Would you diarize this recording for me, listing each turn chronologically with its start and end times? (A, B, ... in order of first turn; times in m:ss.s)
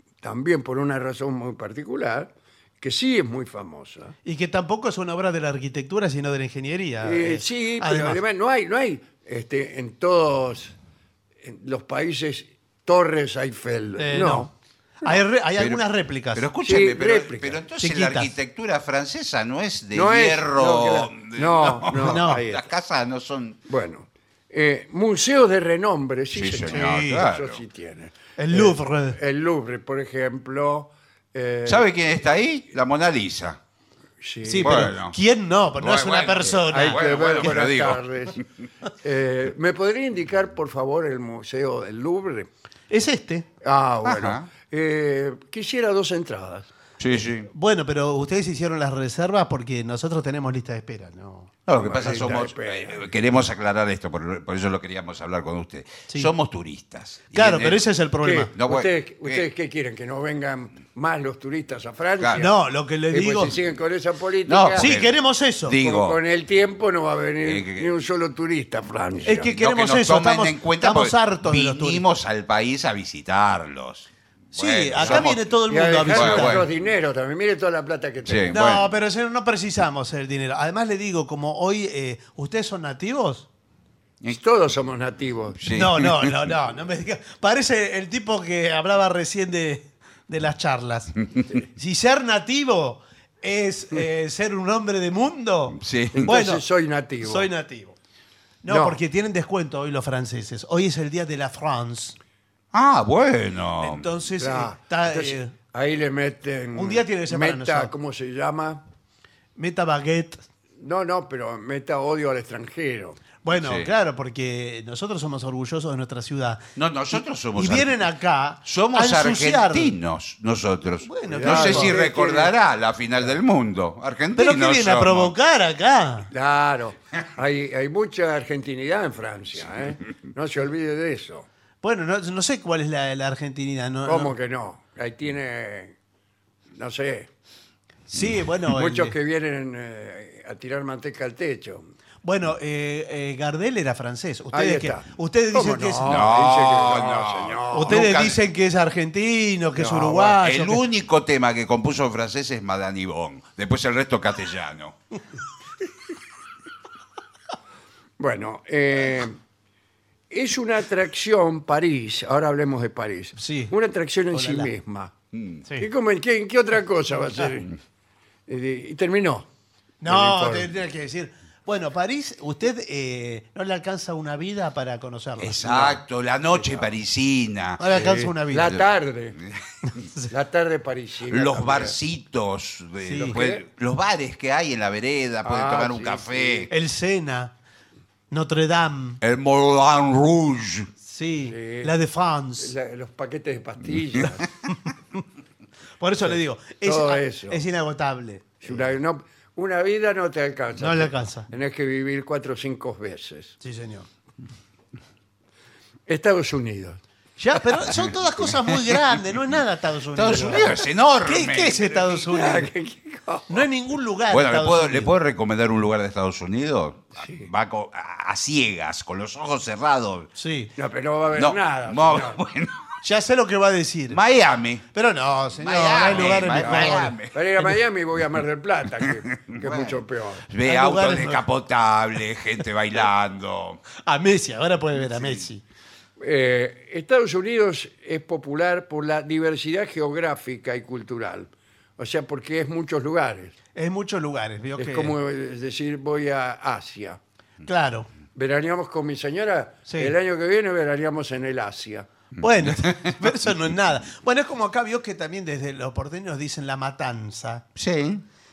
0:00.2-0:04.1 A
0:04.2-0:08.2 B
0:07.0-0:10.8 A
0:11.4-0:14.5 A
0:14.0-0:14.5 B
0:15.0-0:16.5 B
0:15.6-0:23.6 C
0:16.6-0:17.6 A
0:17.8-0:18.3 B
0:19.9-0:22.7 A
0:22.0-0:22.4 B
0:23.7-0:31.9 A
0:26.3-0:27.6 C
0:26.7-0:27.3 B
0:28.4-0:29.2 B
0:31.7-0:33.6 C
0:34.2-0:34.9 A
0:34.4-0:37.6 B
0:34.6-0:35.2 C
0:35.8-0:38.4 C
0:36.6-0:38.4 A
0:39.0-0:42.5 A
0:42.9-0:43.5 B
0:43.6-0:46.7 A
0:44.0-0:44.4 C
0:47.0-0:47.5 C
0:47.5-0:51.6 B
0:51.7-0:57.9 C
0:51.8-0:53.1 A
0:57.3-0:58.5 B
0:58.2-1:02.6 A
0:58.6-0:59.4 C
1:02.2-1:02.5 C
1:02.4-1:03.6 B
1:03.1-1:04.9 A
1:04.5-1:06.2 C
1:04.8-1:05.8 B
1:05.8-1:09.5 A
1:07.4-1:07.9 C
1:09.3-1:12.0 B
1:09.4-1:15.4 C
1:14.6-1:16.7 B
1:15.0-1:18.6 A
1:16.1-1:16.7 C
1:18.3-1:18.8 C
1:18.5-1:23.5 B
1:24.3-1:25.6 A
1:25.6-1:26.3 C
1:25.7-1:31.1 B
1:31.7-1:36.6 B
1:35.8-1:36.3 C
1:36.1-1:37.5 A
1:37.2-1:38.0 B
1:38.6-1:42.2 B
1:38.7-1:39.0 A
1:42.7-1:44.1 C
1:43.8-1:45.5 B
1:44.4-1:48.8 A
1:46.8-1:47.9 B
1:49.6-1:50.4 B
1:50.8-1:53.2 A
1:53.4-2:00.0 B
1:53.5-1:53.9 C
1:56.8-1:58.0 C
1:58.6-2:05.3 C
2:01.0-2:02.0 B
2:01.3-2:02.5 A
2:04.4-2:06.3 B
2:06.3-2:11.5 A
2:11.8-2:14.3 B
2:14.1-2:16.0 A
2:16.8-2:17.3 A
2:18.1-2:19.2 B
2:18.7-2:21.9 A
2:22.2-2:26.3 B
2:24.5-2:28.3 A
2:26.0-2:28.4 C
2:27.7-2:30.8 B
2:29.8-2:30.4 A
2:30.4-2:35.0 C
2:38.2-2:39.4 A
2:40.3-2:45.1 A
2:43.4-2:43.7 B
2:44.3-2:44.7 B
2:45.3-2:45.6 C
2:45.8-2:47.8 A
2:48.5-2:49.5 A
2:50.0-2:56.0 B
2:50.1-2:50.7 A
2:55.4-2:57.9 C
2:55.6-2:56.0 A
2:56.5-2:56.9 A
2:57.8-2:58.8 B
2:57.9-2:59.4 A
2:59.9-3:00.3 B
3:00.3-3:02.0 A
3:01.3-3:06.7 C
3:03.0-3:03.4 B
3:03.2-3:03.6 A
3:05.4-3:06.7 A
3:06.7-3:07.5 B
3:08.3-3:09.2 B
3:09.2-3:10.9 C
3:11.0-3:12.7 B
3:11.5-3:11.9 A
3:12.6-3:14.5 A
3:16.0-3:18.7 B
3:16.3-3:17.6 A
3:18.6-3:23.6 A
3:20.8-3:21.5 B
3:23.6-3:24.1 B
3:26.1-3:27.0 A
3:27.4-3:32.7 B
3:30.1-3:31.8 C
3:32.0-3:33.6 A
3:33.5-3:35.1 B
3:34.3-3:40.3 C
3:37.2-3:37.5 A
3:40.4-3:40.7 B
3:40.8-3:42.4 A
3:41.4-3:42.8 C
3:43.0-3:44.2 B
3:44.1-3:44.8 C
3:44.9-3:47.7 B
3:45.6-3:47.4 C
3:46.0-3:50.5 A
3:49.4-3:53.8 C
3:50.6-3:51.4 B
3:54.0-3:55.6 B
3:55.1-3:55.4 C
3:56.2-4:03.5 A
4:03.8-4:05.2 B
4:04.8-4:07.2 A
4:07.6-4:08.1 B
4:08.4-4:12.1 A
4:09.9-4:10.1 B
4:12.4-4:13.2 C
4:12.4-4:17.6 B
4:17.8-4:18.2 C